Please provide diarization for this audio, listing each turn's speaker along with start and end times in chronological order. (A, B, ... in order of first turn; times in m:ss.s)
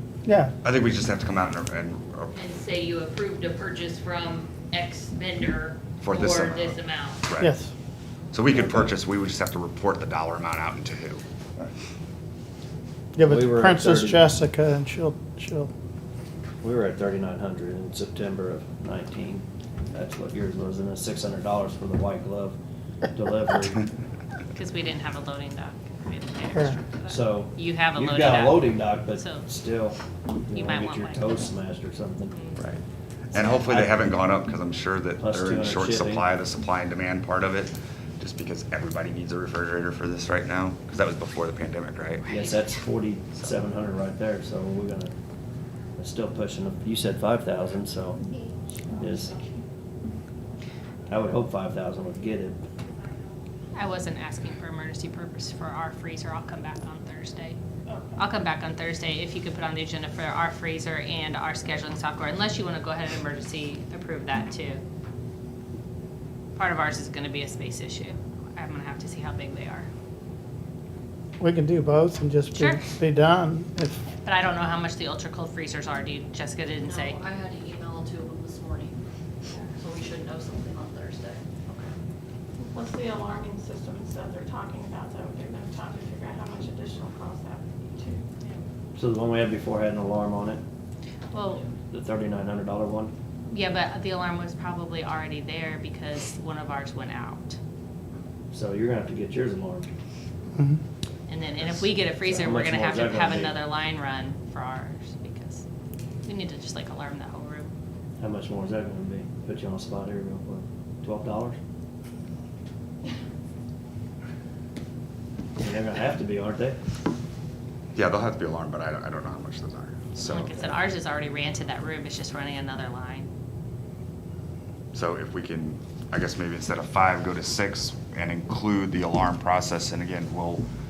0:00.2-0:00.5 A
0:00.6-0:02.4 B
0:02.4-0:07.2 C
0:06.0-0:07.5 B
0:07.4-0:07.7 A
0:08.3-0:11.2 B
0:08.5-0:08.9 D
0:13.2-0:15.7 A
0:13.2-0:14.2 D
0:16.6-0:22.6 D
0:23.1-0:23.9 D
0:24.5-0:29.5 E
0:27.1-0:32.3 D
0:30.5-0:31.5 E
0:32.3-0:32.6 E
0:32.6-0:42.3 B
0:33.3-0:34.0 D
0:35.2-0:36.2 D
0:42.2-0:42.5 E
0:42.3-0:45.1 D
0:46.0-0:48.2 D
0:48.8-0:49.6 F
0:49.0-0:49.4 D
0:51.1-0:52.6 D
0:53.7-0:57.6 E
0:58.2-1:04.8 E
1:06.6-1:09.9 E
1:11.4-1:14.0 A
1:12.5-1:12.8 E
1:14.2-1:17.2 E
1:16.8-1:19.0 G
1:19.7-1:21.8 G
1:22.6-1:28.3 F
1:28.9-1:30.6 D
1:31.3-1:31.6 E
1:31.9-1:33.1 D
1:33.5-1:37.6 E
1:38.5-1:39.9 D
1:41.3-1:45.6 E
1:41.6-1:43.6 D
1:46.2-1:47.7 E
1:48.2-1:51.6 D
1:55.6-1:56.8 D
1:57.9-2:00.6 B
2:00.2-2:00.7 D
2:00.2-2:03.3 E
2:04.9-2:10.7 B